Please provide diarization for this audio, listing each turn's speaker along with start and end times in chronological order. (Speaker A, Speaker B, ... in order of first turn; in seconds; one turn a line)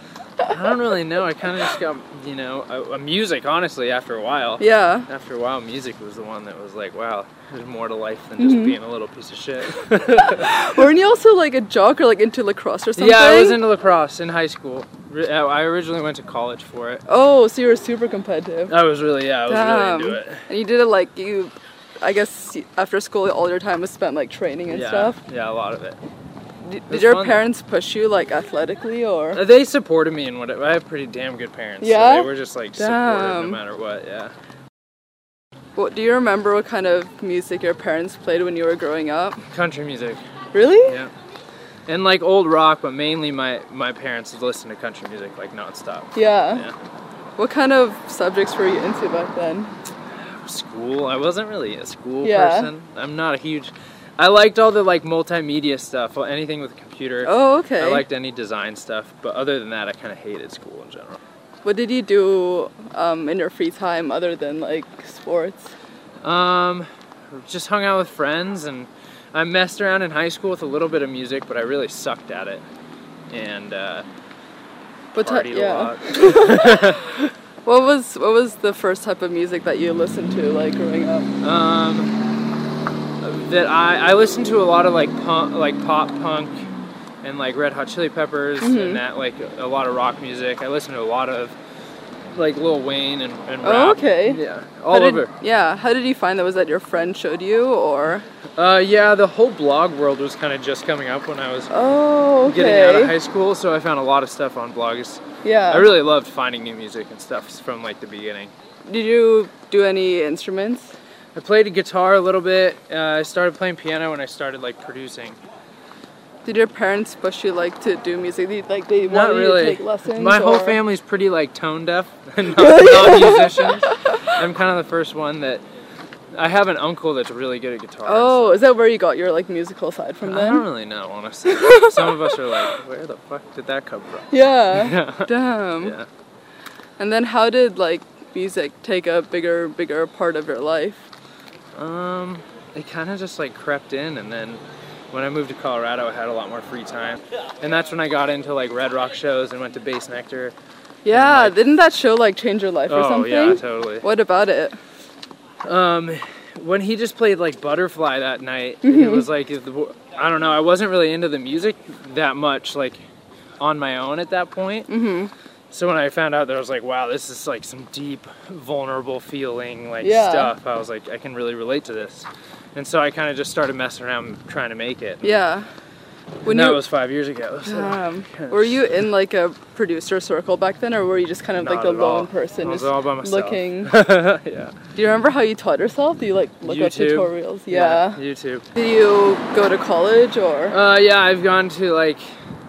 Speaker A: 0.5-10.8
Speaker B: 4.6-5.1
Speaker B: 8.4-8.8
Speaker B: 10.1-13.6
Speaker A: 13.0-17.0
Speaker B: 17.1-18.7
Speaker A: 18.7-20.4
Speaker B: 19.5-25.2
Speaker A: 24.7-26.0
Speaker B: 26.6-29.4
Speaker A: 26.9-27.5
Speaker A: 29.3-34.3
Speaker B: 31.8-33.6
Speaker B: 35.8-39.4
Speaker A: 39.5-40.2
Speaker B: 40.5-41.0
Speaker A: 40.8-41.1
Speaker A: 41.9-46.8
Speaker B: 46.1-46.6
Speaker B: 47.4-49.7
Speaker A: 50.4-61.2
Speaker B: 52.2-52.7
Speaker B: 57.2-58.0
Speaker B: 61.6-65.7
Speaker A: 66.2-72.7
Speaker A: 73.3-74.1
Speaker A: 75.1-77.2
Speaker B: 75.2-81.3
Speaker A: 81.4-82.1
Speaker A: 83.2-86.6
Speaker A: 87.2-91.6
Speaker B: 88.6-89.0
Speaker A: 92.3-95.3
Speaker B: 93.6-94.4
Speaker B: 94.9-98.3
Speaker A: 98.6-101.7
Speaker B: 101.7-103.2
Speaker A: 102.4-108.5
Speaker B: 105.4-105.9
Speaker B: 108.9-110.9
Speaker A: 111.3-115.4
Speaker B: 116.5-120.8
Speaker A: 119.0-125.6
Speaker B: 122.5-123.9
Speaker A: 126.3-128.7
Speaker B: 128.1-130.7
Speaker A: 130.2-135.3
Speaker B: 131.5-132.4
Speaker B: 134.3-136.0
Speaker A: 135.8-136.1
Speaker B: 137.0-141.1
Speaker A: 141.7-150.6
Speaker B: 151.1-154.8
Speaker A: 151.1-151.6
Speaker A: 152.9-154.1
Speaker A: 155.7-163.0
Speaker B: 158.8-159.3
Speaker A: 163.6-164.9
Speaker B: 164.9-165.3
Speaker A: 165.7-175.4
Speaker B: 170.0-170.5
Speaker B: 175.2-175.7
Speaker B: 176.4-176.8
Speaker A: 176.4-178.8
Speaker B: 177.7-184.0
Speaker A: 181.6-184.8
Speaker B: 184.9-188.2
Speaker A: 186.6-188.7
Speaker B: 188.8-190.8
Speaker A: 190.7-192.2